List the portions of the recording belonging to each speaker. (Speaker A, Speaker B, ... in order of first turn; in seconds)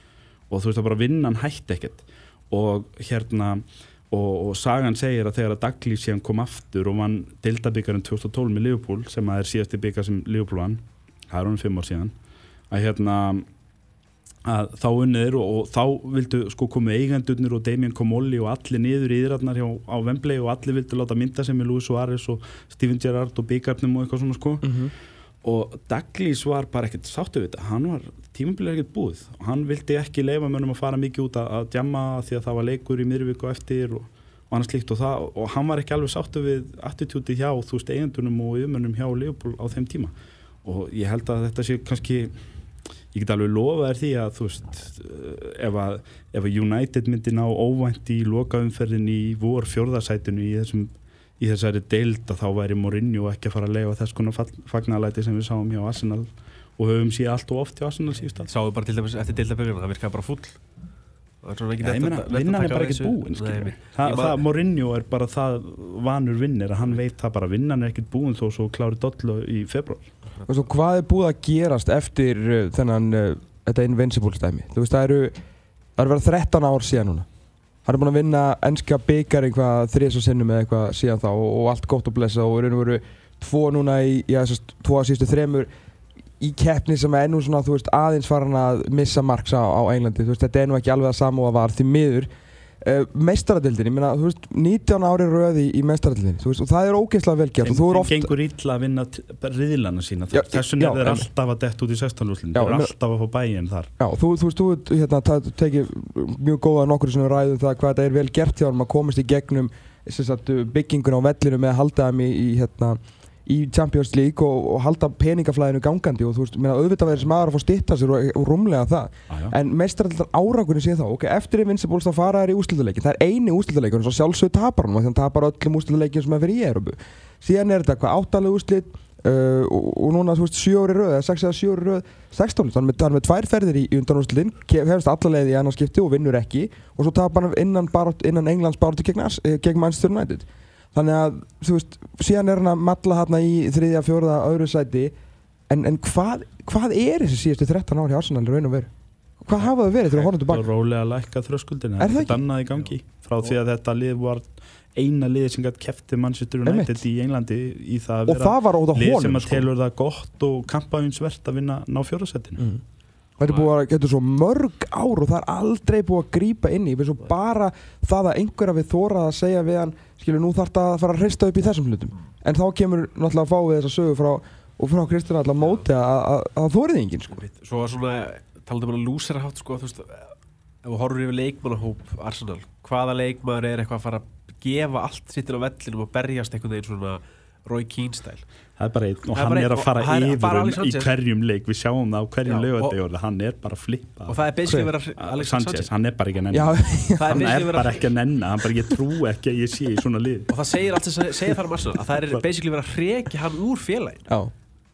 Speaker A: 0.5-12.1, 12.7-13.4, 14.4-24.8, 25.4-40.1, 40.6-42.4, 43.1-58.5, 61.8-70.1, 97.6-103.9, 149.6-162.6, 188.8-194.4, 195.2-200.5
Speaker B: 24.6-24.9, 70.5-75.4, 76.0-77.3, 77.8-85.7, 86.4-92.3, 92.8-98.3, 100.3-101.3, 102.5-102.9, 104.0-145.1, 145.7-148.9, 149.4-150.7, 152.0-152.4, 156.7-157.0, 158.3-159.7, 163.4-177.4, 196.5-197.5, 204.3-204.5
Speaker C: 58.5-60.6, 61.4-64.4, 163.4-163.7, 177.3-188.4, 189.3-191.1, 192.4-193.0, 194.3-195.9, 197.2-198.1, 200.5-204.3